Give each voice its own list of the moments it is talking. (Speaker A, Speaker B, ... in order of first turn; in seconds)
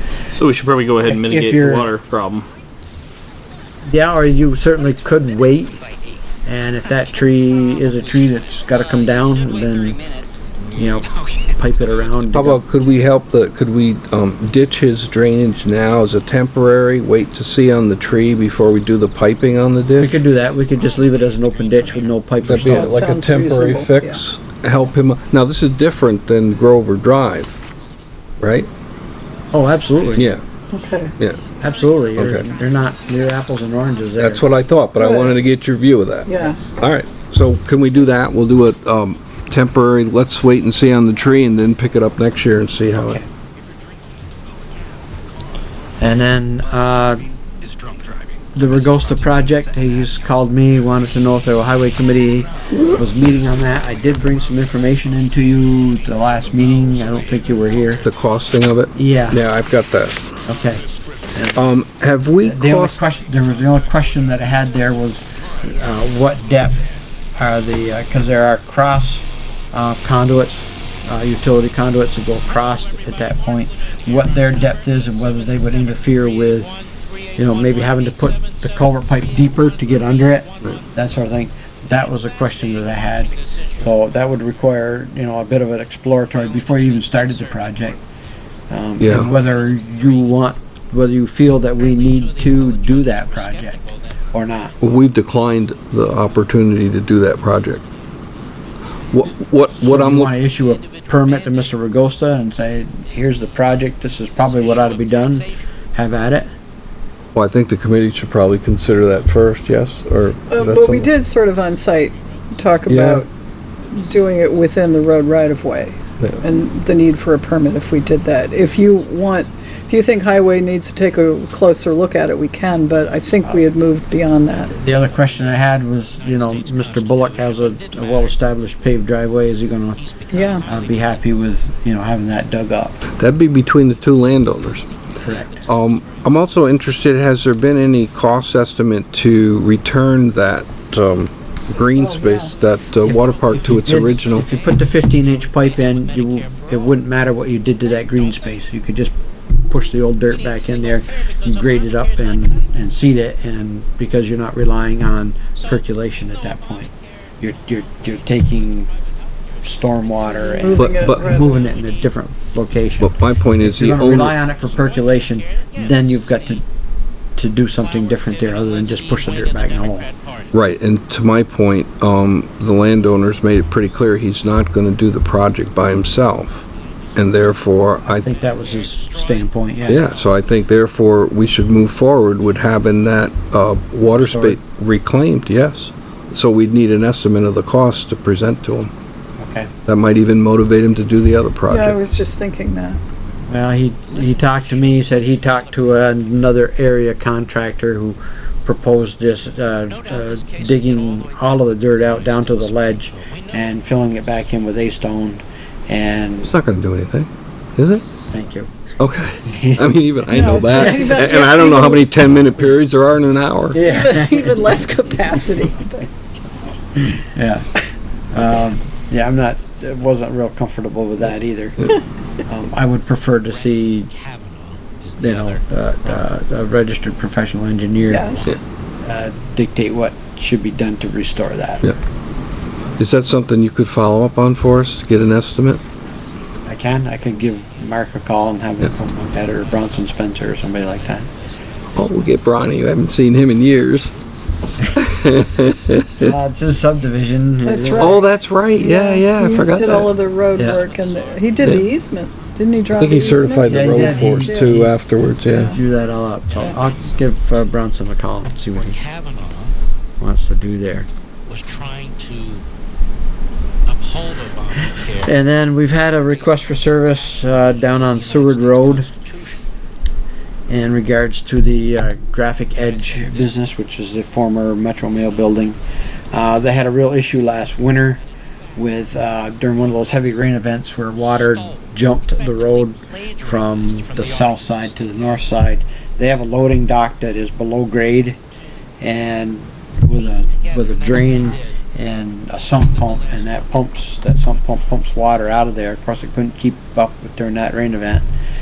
Speaker A: 0.3-2.5
Speaker B: 1.0-1.9, 3.9-5.8, 6.4-10.0, 10.7-12.6, 20.0-23.1, 29.5-30.3, 31.6-34.5, 43.0-43.3, 46.0-47.2, 48.5-58.0, 59.0-59.4, 60.5-61.6, 62.4-76.7, 77.4-88.0, 88.7-94.7, 99.7-106.5, 124.7-130.0, 130.6-133.1, 135.2-135.7, 143.0-149.1, 149.6-156.9, 157.4-158.9, 159.6-166.6, 167.3-170.1, 178.2-180.1, 184.2-184.6, 189.4-189.7, 193.5-206.5, 208.3-208.7, 209.4-210.0, 210.6-211.2, 213.7-214.8, 216.9-217.7, 218.3-221.9, 222.4-224.1, 225.2-231.8, 236.7-241.3, 246.2-248.2, 250.6-250.8, 253.7-254.9, 255.6-259.0, 260.2-261.1, 265.2-269.1, 270.7-275.8, 276.3-278.2, 278.8-288.4, 289.0-298.2
Speaker C: 5.7-6.3, 7.9-10.7, 76.1-78.7, 79.6-80.8, 83.3-83.8, 86.8-87.4, 89.2-90.2, 91.8-94.1, 100.6-101.7, 104.4-105.5, 125.1-125.6, 126.2-128.5, 129.9-131.2, 145.4-147.1, 150.8-151.4, 160.8-161.9, 165.5-165.9, 167.8-170.5, 178.2-179.2, 194.4-195.3, 199.9-203.8, 223.5-226.2, 250.5-252.0, 258.7-259.8, 261.5-262.6, 263.9-265.3, 266.3-269.6, 272.9-273.5, 281.4-281.8, 282.4-285.2, 290.1-291.6
Speaker D: 12.3-20.1, 22.4-27.6, 28.4-28.7, 30.1-30.4, 32.1-32.5, 34.2-43.2, 58.0-60.2, 61.5-63.0, 89.0-89.3, 94.8-97.8, 99.1-100.3, 107.3-111.1, 112.9-113.2, 133.2-134.8, 135.7-144.4, 160.8-161.2, 163.0-164.3, 170.5-176.6, 177.2-178.3, 179.9-188.9, 189.9-192.0, 206.4-208.0, 209.0-213.9, 233.0-235.8, 241.9-244.1, 244.9-246.3, 248.0-250.1, 251.6-251.9, 252.9-255.8
Speaker E: 22.6-24.2, 30.7-31.2, 35.0-35.4, 36.3-36.6, 110.5-113.3, 113.9-124.7, 130.3-130.7, 141.9-142.5, 160.3-161.6, 191.7-193.0, 210.3-212.1, 213.8-216.1, 228.0-228.6, 247.6-254.8, 255.5-255.8